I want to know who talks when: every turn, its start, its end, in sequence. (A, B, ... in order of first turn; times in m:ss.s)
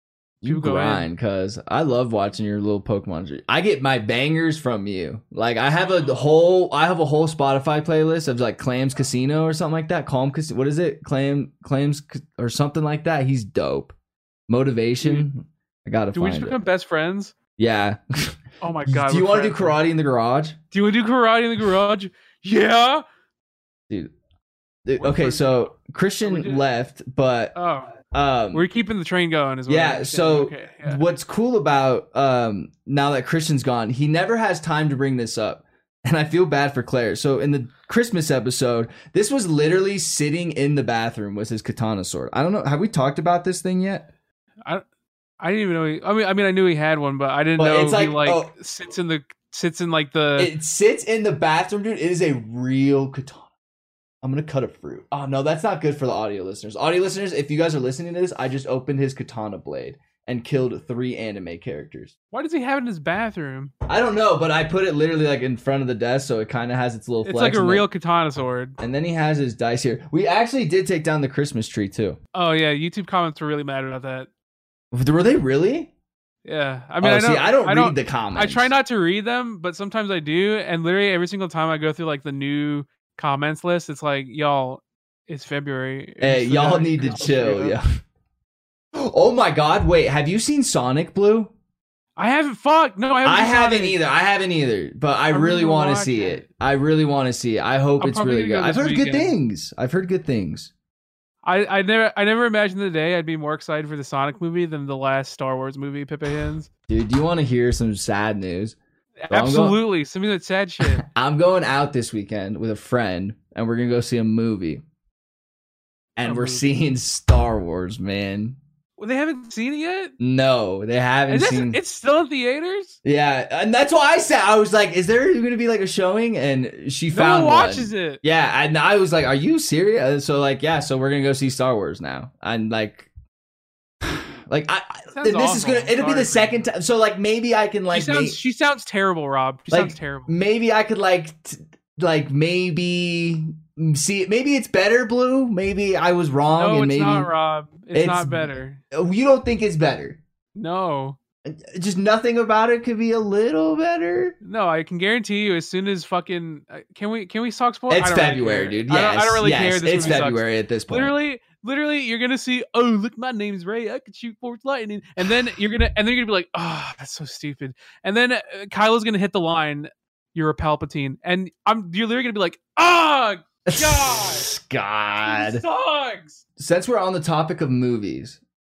0:00.4-0:14.0 A
0:00.4-0:01.1 B
0:14.5-0:16.6 A
0:15.0-0:15.3 B
0:16.1-0:17.3 B
0:17.6-0:18.4 A
0:18.6-0:19.8 B
0:18.9-0:20.6 A
0:20.7-0:23.0 B
0:24.9-0:27.6 A
0:25.0-0:25.7 B
0:26.2-0:26.6 B
0:27.5-0:27.9 B
0:28.1-0:28.6 A
0:28.5-0:31.0 B
0:29.7-0:44.1 A
0:45.4-0:50.5 B
0:47.6-0:48.5 A
0:50.4-0:53.5 A
0:54.2-1:02.1 A
1:02.3-1:03.7 B
1:03.9-1:07.9 A
1:07.2-1:08.8 B
1:08.8-1:12.2 A
1:12.3-1:14.3 B
1:14.9-1:15.9 A
1:16.4-1:27.8 B
1:17.0-1:18.7 A
1:26.2-1:28.0 A
1:28.9-1:31.5 A
1:32.2-1:34.0 B
1:33.2-1:40.7 A
1:35.3-1:36.4 B
1:38.0-1:39.4 B
1:41.4-1:46.7 B
1:46.9-1:48.8 A
1:49.2-1:51.0 B
1:49.3-1:49.8 A
1:50.8-1:54.8 A
1:56.2-1:58.6 A
1:56.3-1:56.6 B
1:59.0-2:00.1 B
2:00.2-2:01.8 A
2:01.3-2:03.0 B
2:03.0-2:13.1 A
2:07.1-2:08.2 B
2:14.0-2:18.4 A
2:15.1-2:16.6 B
2:17.9-2:20.3 B
2:19.7-2:27.3 A
2:26.6-2:28.8 B
2:27.9-2:30.2 A
2:30.6-2:31.2 B
2:31.5-2:34.4 A
2:34.4-2:54.5 B
2:37.9-2:41.1 A
2:53.7-2:55.6 A
2:55.2-2:56.4 B
2:56.6-2:58.4 A